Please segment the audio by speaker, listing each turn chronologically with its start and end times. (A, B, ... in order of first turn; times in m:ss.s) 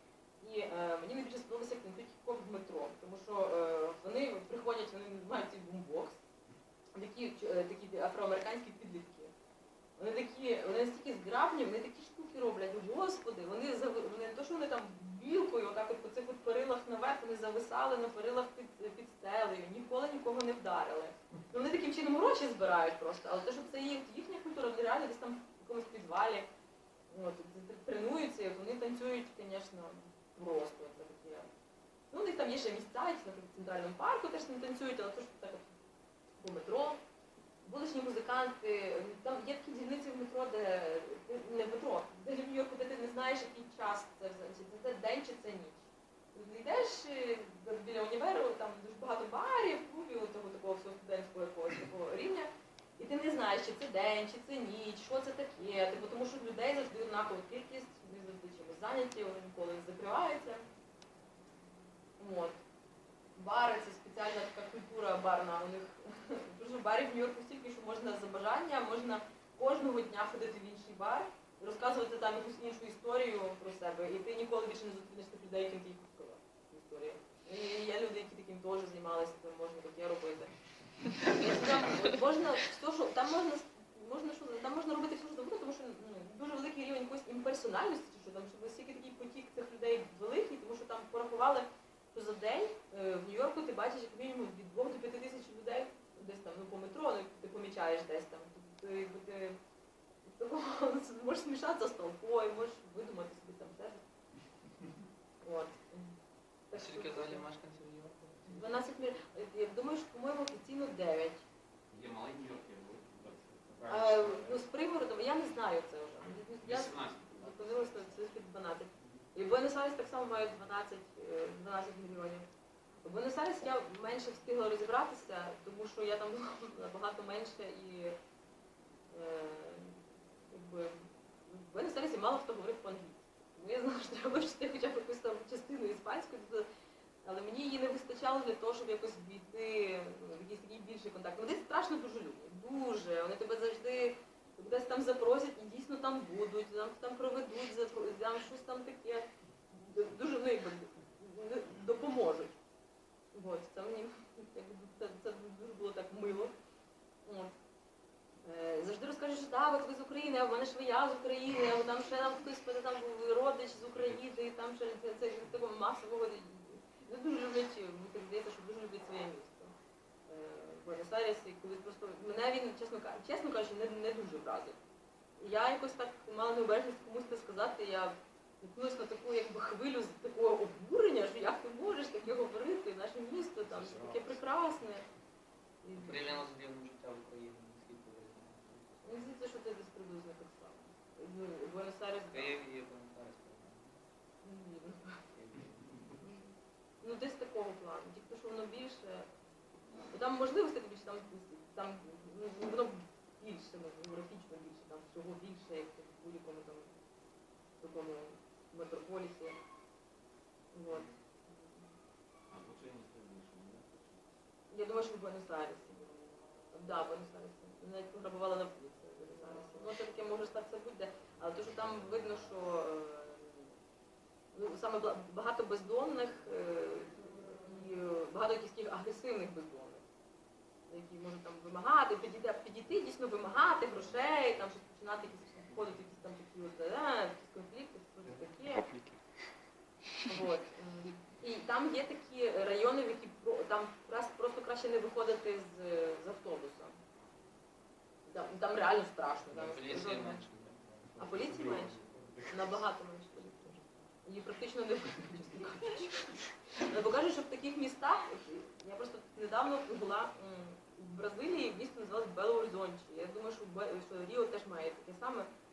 0:00.4-0:06.2 A
0:07.0-0:09.3 A
0:10.0-0:26.5 A
0:27.1-0:31.5 A
0:32.1-0:35.7 A
0:36.4-0:37.0 A
0:37.6-1:00.6 A
1:02.2-1:02.6 A
1:03.4-1:20.5 A
1:21.3-1:39.6 A
1:40.3-1:44.0 A
1:45.4-1:46.1 A
1:46.7-1:47.4 A
1:46.7-1:48.9 B
1:48.5-1:51.4 A
1:51.9-1:54.7 C
1:53.9-2:02.5 A
1:56.2-1:58.3 C
2:03.0-2:08.2 A
2:09.1-2:16.7 A
2:17.2-2:32.6 A
2:33.3-2:36.5 A
2:37.2-2:37.5 A
2:38.4-2:49.7 A
2:50.3-2:54.8 A
2:55.4-3:05.0 A
3:03.6-3:04.4 C
3:05.8-3:06.5 A
3:06.0-3:09.3 B
3:09.0-3:12.6 A
3:12.3-3:14.0 B
3:14.4-3:15.2 A
3:15.3-3:16.1 B
3:16.2-3:19.3 A
3:20.1-3:26.9 A
3:27.8-3:29.6 A
3:30.7-3:31.8 A
3:32.5-3:34.3 C
3:34.7-3:36.1 A
3:36.7-3:43.7 A
3:44.5-3:50.0 A
3:50.9-3:58.9 A
4:00.2-4:07.0 A
4:08.2-4:10.4 A
4:09.5-4:12.4 B
4:11.2-4:25.5 A
4:11.2-4:12.5 C